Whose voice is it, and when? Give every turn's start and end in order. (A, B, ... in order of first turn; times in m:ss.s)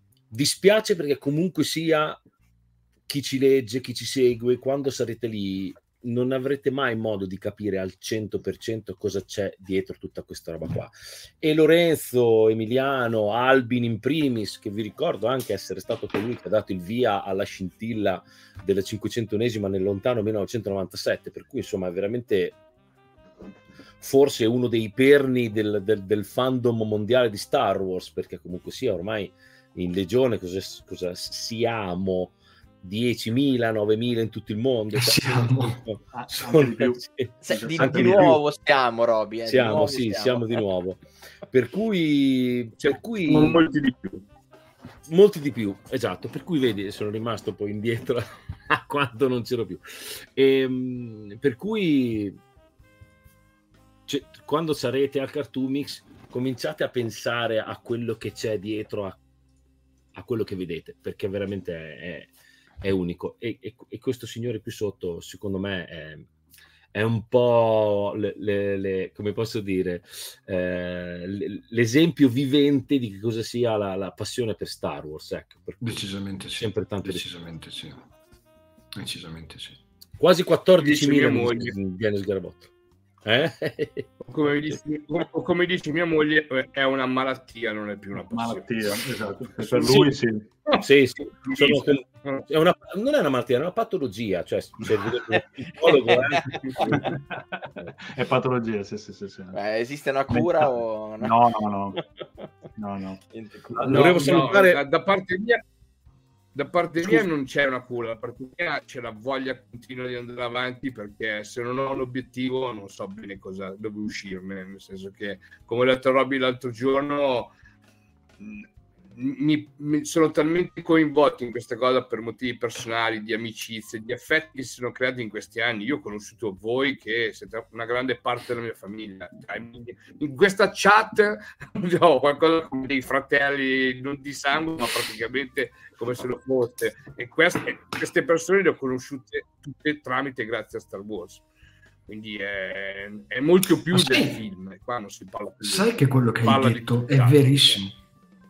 0:00.3-0:02.2 A
0:03.1-0:22.6 A
0:24.0-0:38.4 A
0:35.0-0:35.8 B
0:36.1-0:38.3 C
0:37.4-0:40.6 D
0:39.5-0:43.6 A
0:42.8-0:44.2 E
0:45.1-0:52.4 A
0:54.1-0:59.2 A
1:00.2-1:06.3 A
1:06.9-1:16.0 A
1:15.8-1:18.0 B
1:16.6-1:17.3 A
1:19.0-1:19.8 B
1:20.2-1:22.7 A
1:20.8-1:21.8 E
1:23.2-1:24.1 A
1:24.2-1:29.0 E
1:28.3-1:30.5 C
1:29.6-1:30.2 E
1:30.8-1:36.7 A
1:31.4-1:32.5 E
1:36.0-1:36.8 E
1:36.8-1:39.6 C
1:39.5-1:41.3 D
1:40.3-1:42.0 C
1:42.8-1:44.4 C
1:43.3-1:43.9 D
1:43.8-1:44.8 A
1:43.9-1:45.6 E
1:46.5-1:57.5 E
1:58.4-2:21.4 E
2:22.1-2:27.8 E
2:23.9-2:24.3 B
2:25.6-2:27.9 B